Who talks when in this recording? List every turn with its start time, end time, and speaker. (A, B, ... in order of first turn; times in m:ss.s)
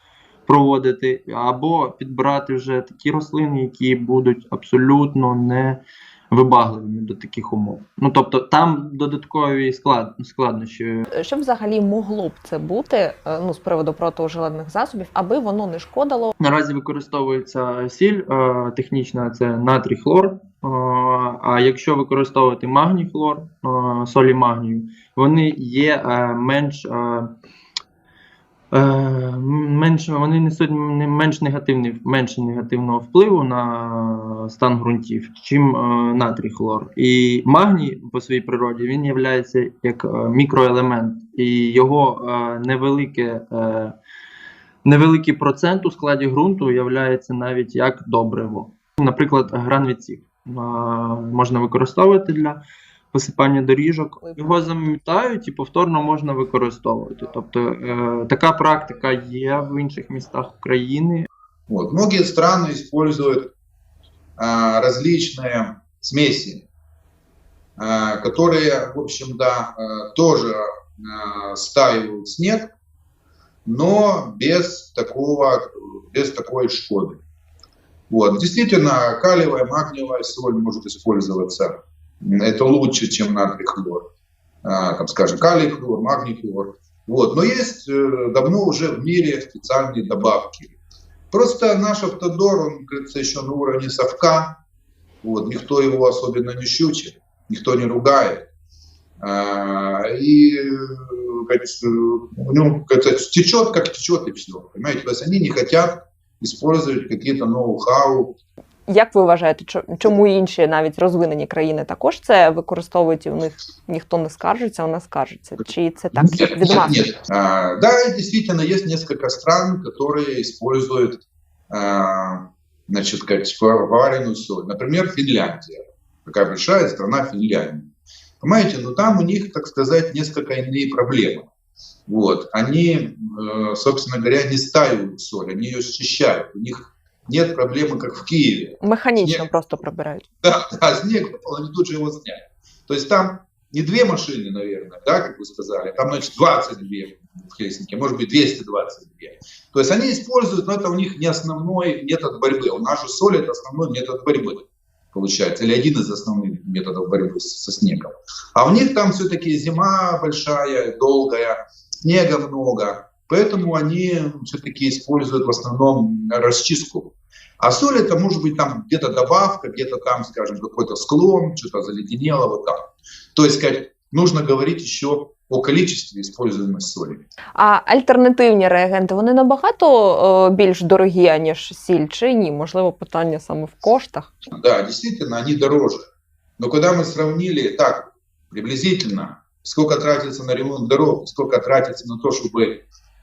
0:00.5-0:11.0 A
0:11.1-0:16.3 B
0:16.4-0:27.3 A
0:28.7-0:43.9 A
0:44.8-0:52.6 A
0:53.1-1:01.3 A
1:01.7-1:03.5 C
1:04.4-1:06.6 C
1:07.8-1:12.7 C
1:13.6-1:17.2 C
1:18.1-1:24.0 C
1:24.6-1:30.7 C
1:31.3-1:34.6 C
1:35.2-1:38.4 C
1:39.2-1:48.3 C
1:48.9-1:57.1 B
1:56.2-2:07.9 C
2:08.4-2:11.4 C
2:12.1-2:19.4 C
2:18.8-2:20.3 B
2:20.4-2:57.2 C
2:57.6-3:04.3 B
3:04.5-3:12.8 C